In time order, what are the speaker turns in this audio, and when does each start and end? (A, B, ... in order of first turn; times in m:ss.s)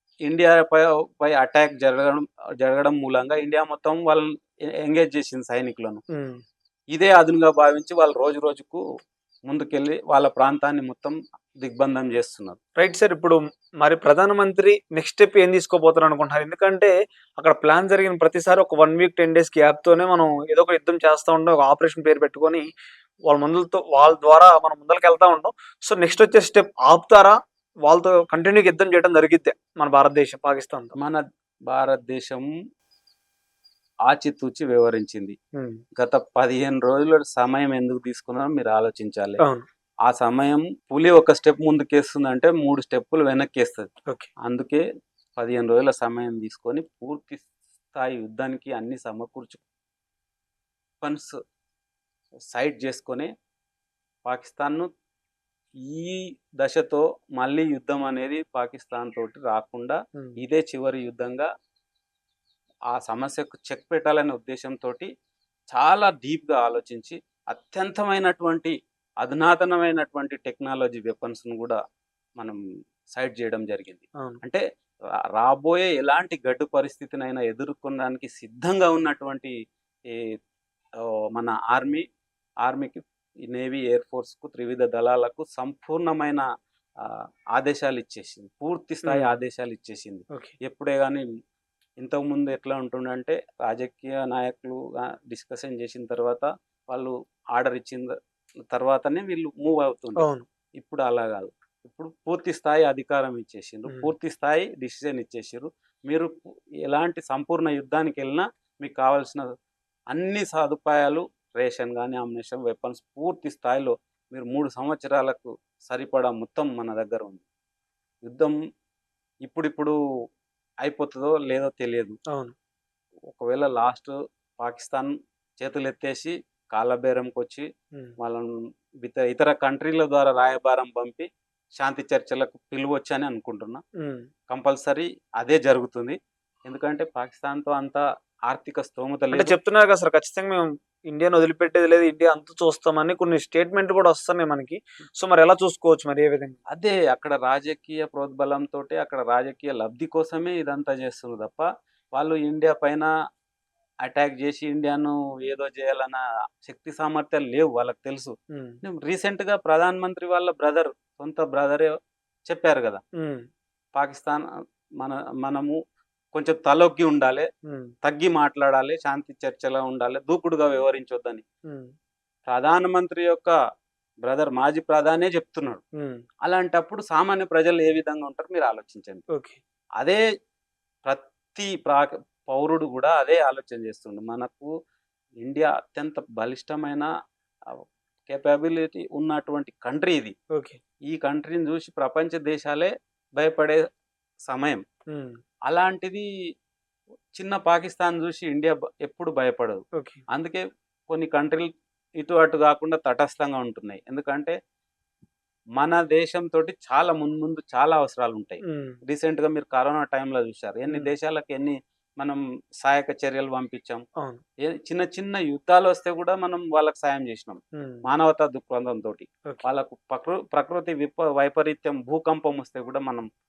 0:00.2-0:04.3 A
0:04.8-0:06.0 A
0:06.1-0:06.4 B
0:06.9-0:08.8 A
0:09.5-0:12.6 A
0:12.8-0:22.7 B
0:23.3-0:27.4 B
0:27.9-0:31.0 B
0:31.0-0:32.5 A
0:34.1-0:35.4 A
0:36.0-0:39.4 A
0:40.1-0:43.9 A
0:44.4-0:44.8 A
0:45.4-0:49.6 A
0:51.0-0:51.3 A
0:52.5-0:53.3 A
0:54.3-0:54.9 A
0:55.8-1:01.5 A
1:02.9-1:05.1 A
1:05.7-1:11.8 A
1:13.1-1:14.6 A
1:15.4-1:19.5 A
1:21.0-1:22.0 A
1:22.6-1:26.4 A
1:27.0-1:31.2 A
1:29.0-1:29.4 B
1:32.0-1:38.1 A
1:38.7-1:40.2 A
1:40.2-1:40.4 B
1:40.8-1:46.3 A
1:46.8-1:49.4 A
1:50.1-1:57.4 A
1:58.2-1:58.6 A
1:59.4-2:00.0 A
2:00.8-2:02.2 A
2:03.3-2:07.7 A
2:08.2-2:08.5 A
2:09.0-2:11.3 A
2:11.8-2:13.8 A
2:14.0-2:14.3 B
2:14.5-2:19.5 A
2:19.3-2:26.6 B
2:26.7-2:33.1 A
2:34.0-2:41.9 A
2:38.5-2:38.8 B
2:42.5-2:43.0 A
2:43.2-2:43.4 B
2:44.0-2:44.4 A
2:45.0-2:45.8 A
2:46.3-2:47.5 A
2:47.7-2:47.9 B
2:48.0-2:51.4 A
2:52.5-2:53.5 A
2:54.2-2:55.8 A
2:56.4-2:59.2 A
2:59.3-2:59.6 B
3:01.1-3:04.7 A
3:05.4-3:07.1 A
3:07.7-3:10.3 A
3:11.1-3:13.8 A
3:14.5-3:14.8 A
3:15.7-3:16.2 A
3:17.4-3:19.8 A
3:20.3-3:21.7 A
3:22.2-3:24.6 A
3:25.8-3:34.0 A
3:28.7-3:29.0 B
3:34.7-3:43.3 A
3:37.8-3:38.0 B